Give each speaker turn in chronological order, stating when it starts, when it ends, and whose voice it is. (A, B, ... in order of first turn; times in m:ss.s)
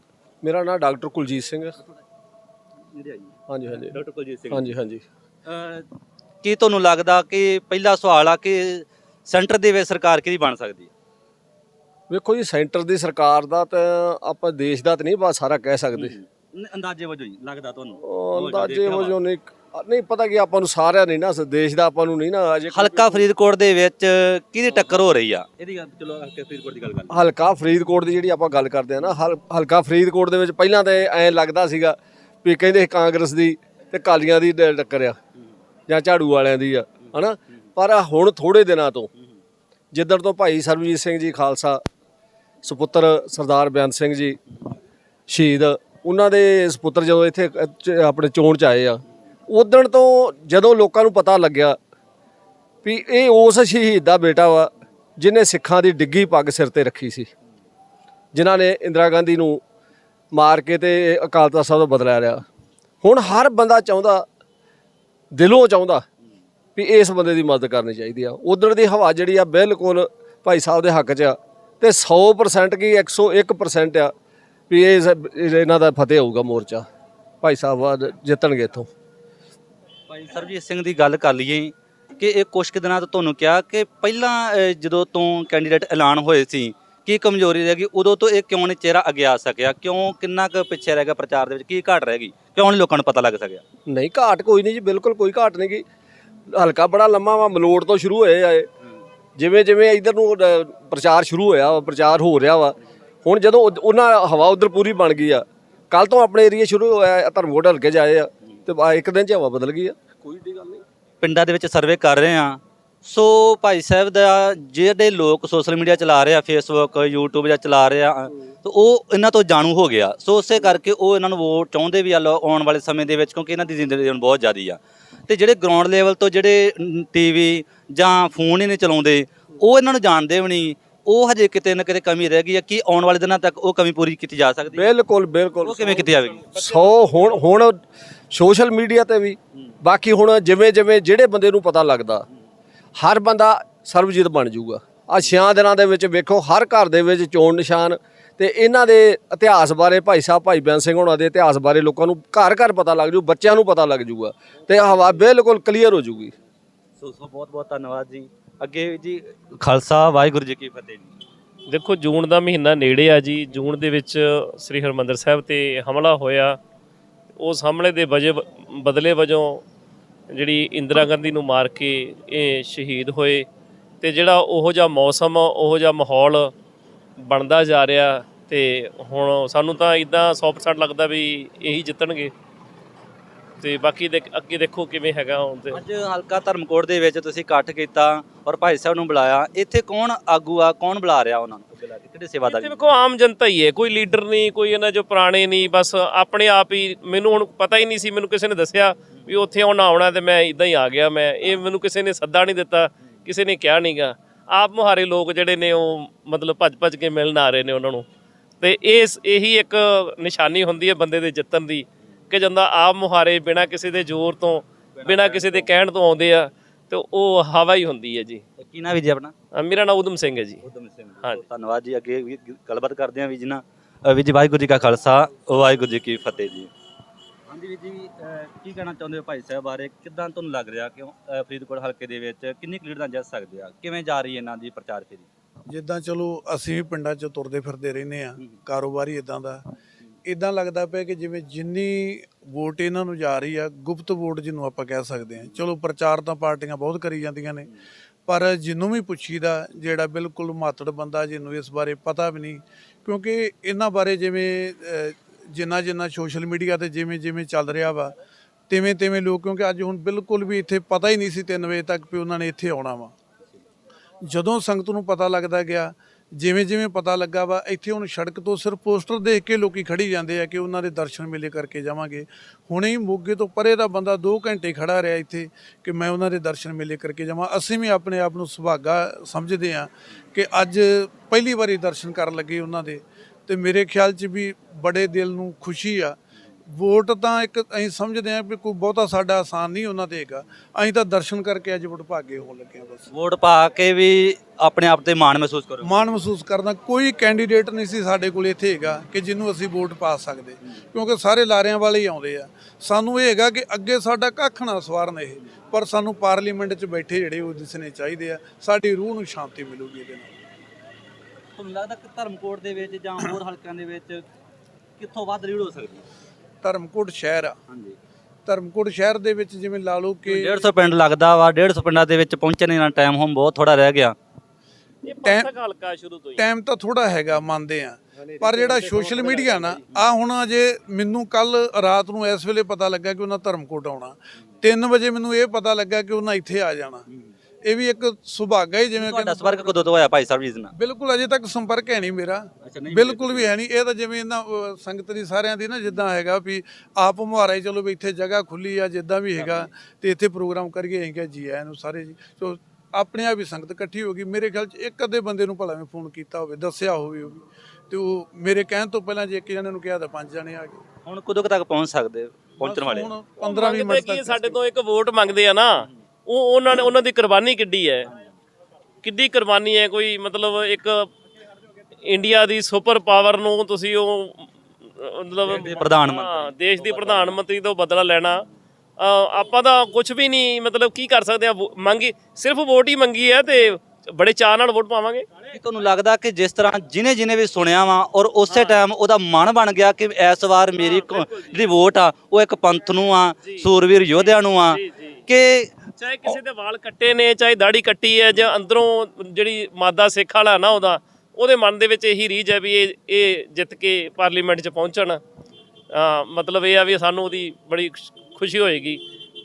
0:00.4-0:01.8 A
0:02.9-0:04.7 B
0:03.5-0:03.9 A
0:04.5-0:05.0 A
0:05.4-0:05.8 B
0:06.4-0:10.9 B
0:12.1-0:16.1 A
0:16.0-0:19.2 B
0:18.0-0:23.2 A
0:22.7-0:27.2 B
0:27.1-0:35.2 A
0:35.9-0:39.1 A
0:39.9-0:41.8 A
0:42.6-0:44.4 A
0:45.3-0:51.8 A
0:52.8-0:57.3 A
0:58.3-0:59.6 A
1:00.3-1:02.4 A
1:03.0-1:04.2 A
1:05.3-1:06.0 A
1:06.8-1:14.1 A
1:14.7-1:16.8 A
1:17.4-1:18.9 A
1:20.1-1:33.6 B
1:33.9-1:35.8 A
1:36.5-1:38.7 A
1:39.4-1:50.8 A
1:51.2-2:14.9 B
2:14.7-2:17.8 A
2:15.6-2:16.5 B
2:18.3-2:22.2 A
2:23.0-2:36.3 A
2:37.0-2:41.2 B
2:41.7-2:46.6 C
2:47.4-2:49.6 C
2:50.3-2:53.5 C
2:54.0-2:56.5 C
2:57.2-3:02.3 C
3:03.6-3:05.8 C
3:05.7-3:12.8 B
3:12.4-3:28.0 C
3:28.6-3:38.4 C
3:34.9-3:35.7 B
3:38.6-3:39.3 B
3:39.5-3:40.6 C
3:40.6-3:46.7 B
3:47.5-3:55.3 B
3:55.7-3:59.6 D
4:00.2-4:07.7 D
4:08.3-4:18.1 D
4:18.7-4:23.1 D
4:24.2-4:46.2 D
4:46.7-4:53.1 D
4:53.1-4:56.1 B
4:55.8-5:10.4 D
5:11.6-5:14.2 B
5:15.0-5:16.0 B
5:16.6-5:17.6 D
5:17.7-5:18.0 B
5:18.4-5:20.6 D
5:20.3-5:24.1 B
5:25.0-5:26.4 C
5:25.2-5:25.5 D
5:26.4-5:37.0 D
5:28.5-5:29.5 C
5:37.6-5:39.8 D
5:39.0-5:40.7 B
5:40.7-6:00.8 D
5:42.6-5:43.5 B
5:49.4-5:49.7 B
6:01.0-6:03.1 B
6:02.6-6:04.6 D
6:03.4-6:08.1 C
6:08.1-6:08.4 B
6:09.0-6:11.1 C
6:12.0-6:18.4 C
6:15.4-6:17.4 B
6:19.0-6:25.3 C
6:25.5-6:35.7 B
6:28.5-6:28.8 C
6:30.8-6:31.6 C
6:33.4-6:35.2 C
6:36.0-6:45.2 C
6:45.9-6:49.0 C